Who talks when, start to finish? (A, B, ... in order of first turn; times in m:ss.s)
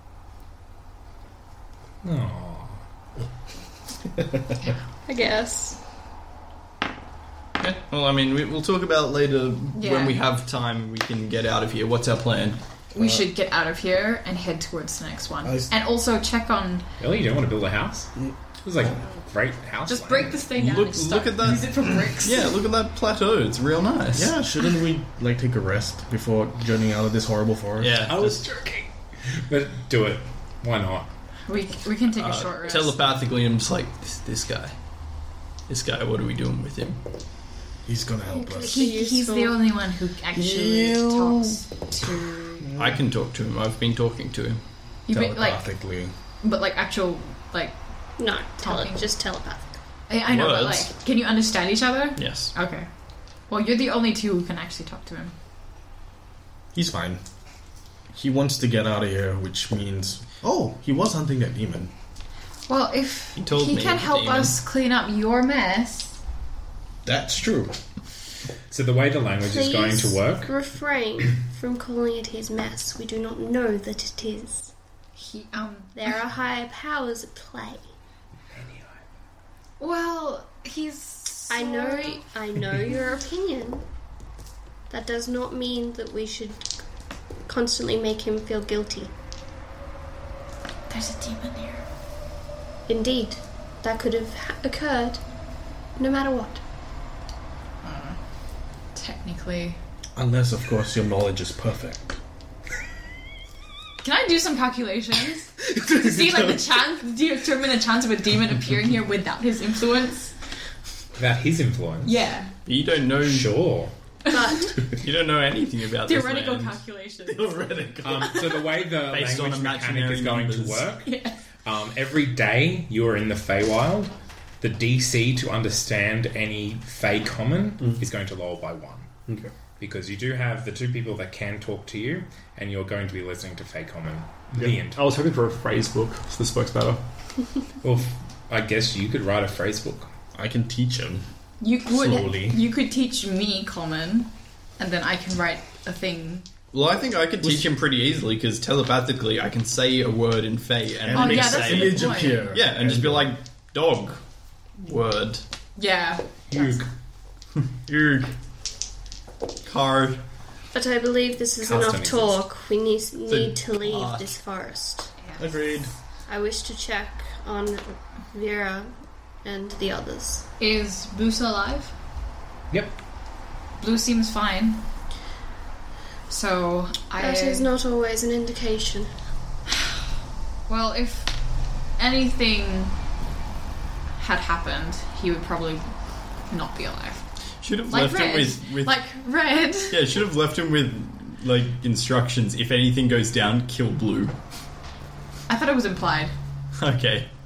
0:02.0-0:02.8 A
0:05.0-0:05.8 B
0:07.6-0:12.6 C
0:09.7-0:10.2 D
0:12.9-0:16.8 D
0:13.0-0:13.2 E
0:15.4-0:15.7 E
0:17.0-0:20.5 A
0:19.9-0:22.6 D
0:20.5-0:24.4 C
0:24.1-0:28.1 E
0:27.8-0:28.4 C
0:28.0-0:31.1 A
0:31.5-0:33.2 D
0:32.1-0:34.8 C
0:35.7-0:37.0 C
0:37.8-0:38.8 E
0:38.3-0:39.6 B
0:38.6-0:42.7 D
0:40.4-0:41.4 C
0:42.6-0:43.0 E
0:42.8-0:44.6 C
0:45.1-0:45.7 D
0:45.1-0:46.1 E
0:46.4-0:47.8 D
0:48.2-0:49.7 B
0:48.6-0:49.0 D
0:50.1-0:52.9 D
0:50.2-0:50.9 C
0:52.2-0:52.5 C
0:53.5-0:55.3 D
0:56.7-0:57.2 E
0:58.1-1:01.9 E
1:02.7-1:06.2 D
1:03.4-1:04.6 C
1:07.0-1:07.8 E
1:08.7-1:10.5 A
1:09.5-1:14.7 B
1:15.2-1:15.9 D
1:15.9-1:17.9 B
1:18.5-1:18.9 A
1:19.8-1:22.2 D
1:21.5-1:23.8 B
1:24.9-1:26.7 B
1:27.4-1:29.1 B
1:30.9-1:31.8 D
1:32.9-1:35.2 B
1:36.0-1:36.6 B
1:37.8-1:38.2 D
1:38.9-1:39.8 D
1:40.2-1:42.2 E
1:44.0-1:50.3 D
1:51.2-1:52.3 A
1:52.0-1:52.5 D
1:52.6-1:53.6 C
1:53.2-1:53.9 A
1:54.2-1:54.7 D
1:54.3-1:54.8 B
1:55.0-1:56.8 C
1:56.0-1:58.6 D
1:57.3-1:58.3 E
1:58.0-2:01.1 A
1:59.0-2:00.9 C
2:01.0-2:01.4 D
2:01.6-2:09.1 A
2:07.8-2:08.0 F
2:09.3-2:09.5 F
2:09.8-2:15.1 A
2:14.6-2:17.0 F
2:17.8-2:20.1 A
2:20.3-2:21.2 E
2:21.6-2:26.5 D
2:21.9-2:22.7 E
2:26.7-2:34.2 C
2:27.4-2:27.7 E
2:31.0-2:33.3 E
2:31.1-2:32.5 D
2:34.8-2:35.4 C
2:35.8-2:36.8 D
2:36.5-2:36.9 A
2:37.9-2:38.3 C
2:39.6-2:40.2 C
2:40.7-2:45.1 B
2:41.6-2:42.4 A
2:43.3-2:44.3 C
2:45.2-2:45.5 D
2:45.4-2:45.9 E
2:46.3-2:50.5 B
2:50.6-2:51.9 D
2:52.7-2:53.0 A
2:53.8-2:54.8 D
2:56.3-2:57.7 D
2:57.2-2:59.1 B
3:00.7-3:01.3 D
3:02.0-3:02.9 D
3:04.2-3:05.9 D
3:06.5-3:07.2 D
3:07.6-3:09.0 C
3:07.9-3:10.2 D
3:09.9-3:14.4 C
3:15.5-3:16.3 D
3:16.7-3:17.3 C